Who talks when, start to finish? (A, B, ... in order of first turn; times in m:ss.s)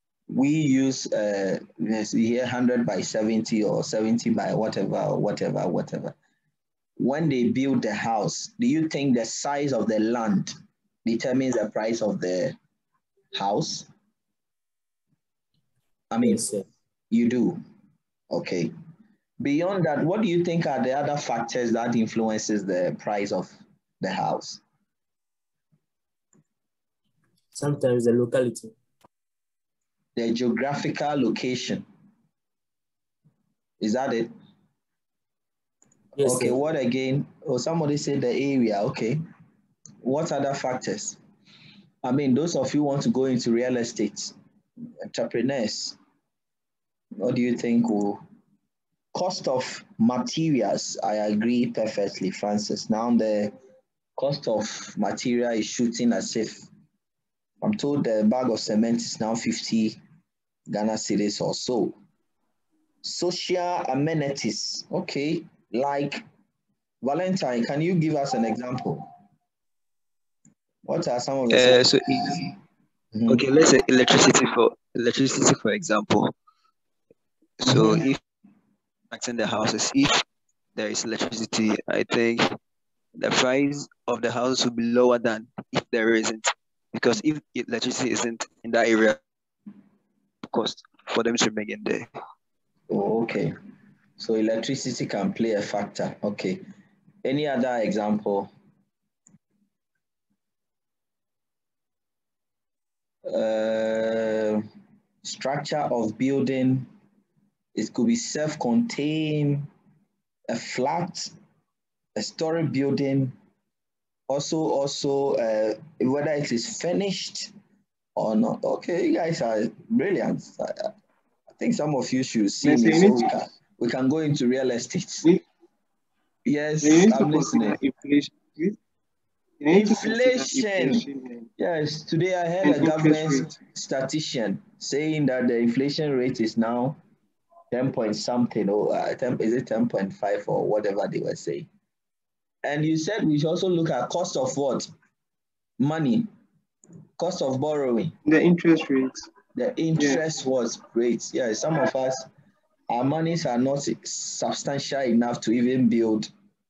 0:00.3-0:06.2 A
0:07.0-0:10.5 A
0:11.0-0:12.6 A
0:13.3-0:13.9 A
0:16.1-0:16.5 A
0:16.2-0:16.7 B
0:17.1-0:17.6 A
0:18.3-0:18.7 A
0:19.4-0:24.6 A
0:27.5-0:28.8 B
0:30.2-0:31.9 A
0:33.8-0:34.3 A
0:36.2-0:36.6 B
0:36.2-0:39.2 A
0:40.0-0:41.2 A
0:42.0-0:44.3 A
0:45.0-0:46.0 A
0:47.2-0:48.2 A
0:49.1-0:53.5 A
0:54.2-0:56.7 A
0:57.6-1:00.0 A
1:00.7-1:02.0 A
1:03.0-1:06.2 A
1:07.0-1:09.1 A
1:10.8-1:12.5 A
1:11.5-1:12.4 C
1:13.1-1:13.4 A
1:13.3-1:16.3 C
1:17.6-1:18.2 C
1:19.1-1:20.2 C
1:20.8-1:22.5 C
1:23.2-1:29.2 C
1:30.5-1:32.1 C
1:32.9-1:33.5 A
1:34.2-1:36.6 A
1:37.2-1:38.5 A
1:43.3-1:44.6 A
1:45.2-1:46.9 A
1:47.8-1:49.7 A
1:50.5-1:51.3 A
1:52.2-1:53.3 A
1:54.3-1:57.5 A
1:58.2-2:00.9 A
2:01.6-2:05.3 A
2:02.6-2:03.3 D
2:06.4-2:07.8 A
2:06.8-2:08.8 D
2:09.6-2:11.4 D
2:09.7-2:11.0 A
2:11.6-2:17.0 A
2:12.6-2:13.5 D
2:17.7-2:21.7 A
2:22.6-2:24.9 A
2:25.8-2:26.3 A
2:27.2-2:28.2 A
2:28.3-2:29.3 D
2:29.6-2:32.3 A
2:32.9-2:36.3 A